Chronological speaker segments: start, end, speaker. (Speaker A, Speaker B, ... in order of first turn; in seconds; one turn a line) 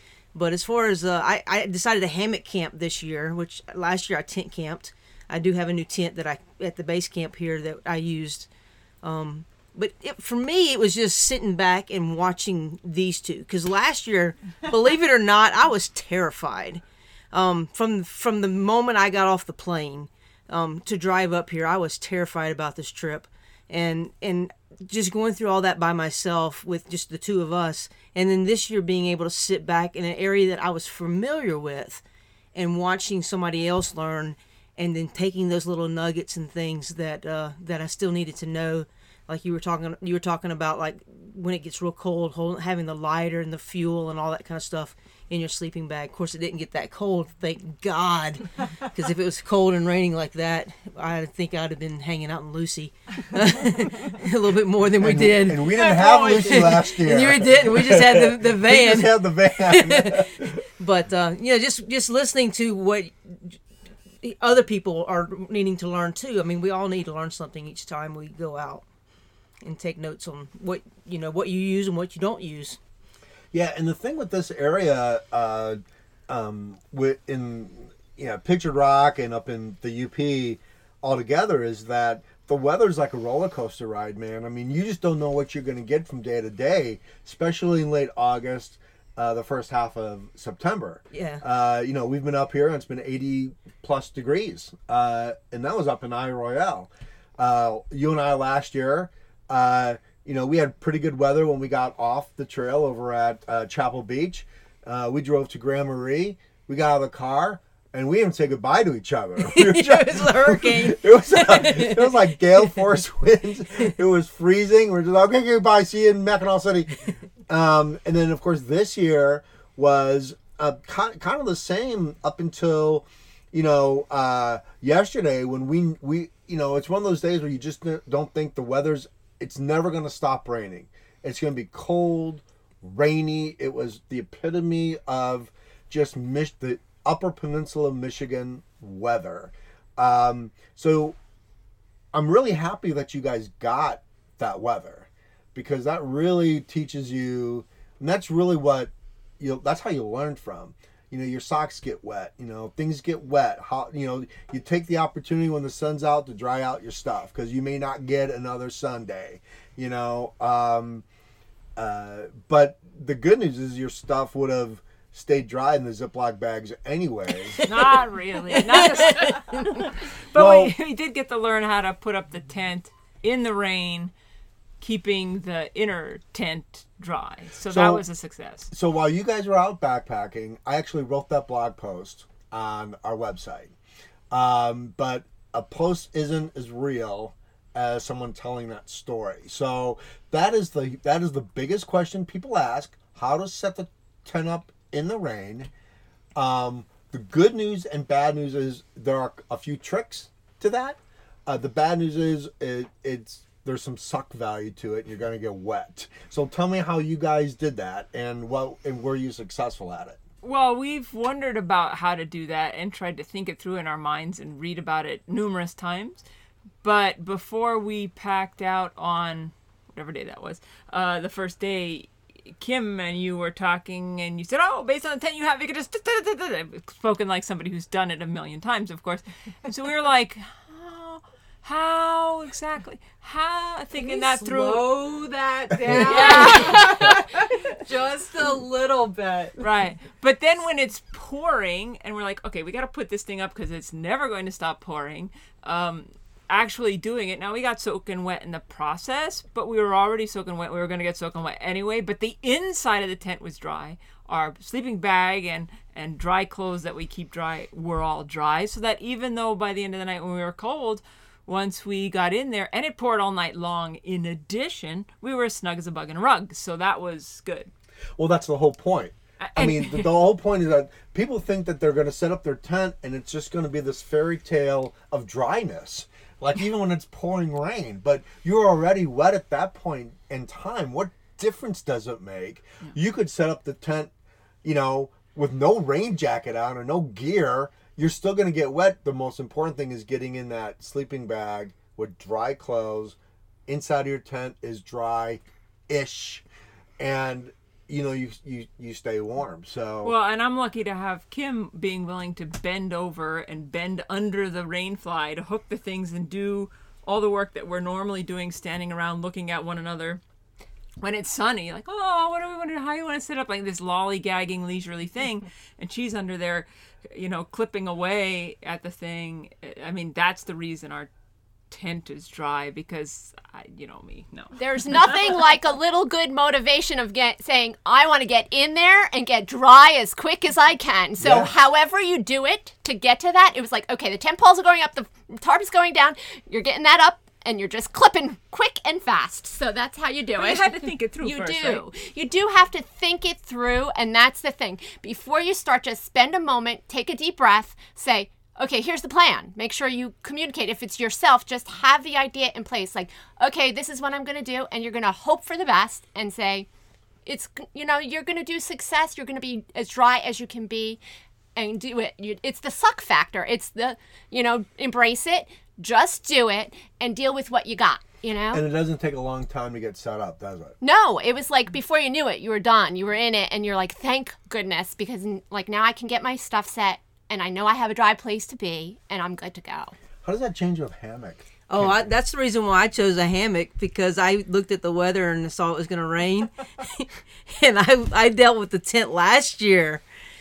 Speaker A: 0.3-8.5
Speaker A: 9.0-32.0
Speaker A: 32.5-63.6
Speaker B: 55.0-60.6
Speaker C: 55.9-56.6
Speaker A: 64.2-68.8
Speaker A: 69.6-72.8
Speaker B: 73.5-141.2
Speaker A: 91.1-91.4
Speaker A: 109.4-112.3
Speaker B: 142.1-161.0
Speaker B: 161.8-167.6
Speaker A: 167.5-167.9
Speaker D: 167.6-174.1
Speaker A: 168.5-169.6
Speaker B: 170.3-170.7
Speaker D: 174.8-178.7
Speaker B: 177.7-178.0
Speaker B: 178.7-183.7
Speaker B: 184.3-195.7
Speaker B: 196.3-210.2
Speaker D: 210.4-216.2
Speaker D: 216.8-234.9
Speaker C: 233.9-239.6
Speaker B: 235.8-236.2
Speaker D: 235.9-237.2
Speaker D: 239.6-267.7
Speaker B: 268.2-284.1
Speaker D: 269.4-270.1
Speaker B: 284.6-293.1
Speaker B: 293.7-296.4
Speaker B: 297.0-300.1
Speaker D: 300.0-310.2
Speaker D: 311.0-321.1
Speaker D: 321.7-325.3
Speaker E: 324.6-356.7
Speaker B: 331.2-331.5
Speaker D: 340.4-341.9
Speaker E: 357.2-361.0
Speaker E: 361.6-368.6
Speaker B: 368.5-370.7
Speaker E: 370.8-379.9
Speaker B: 380.2-382.1
Speaker A: 381.7-390.0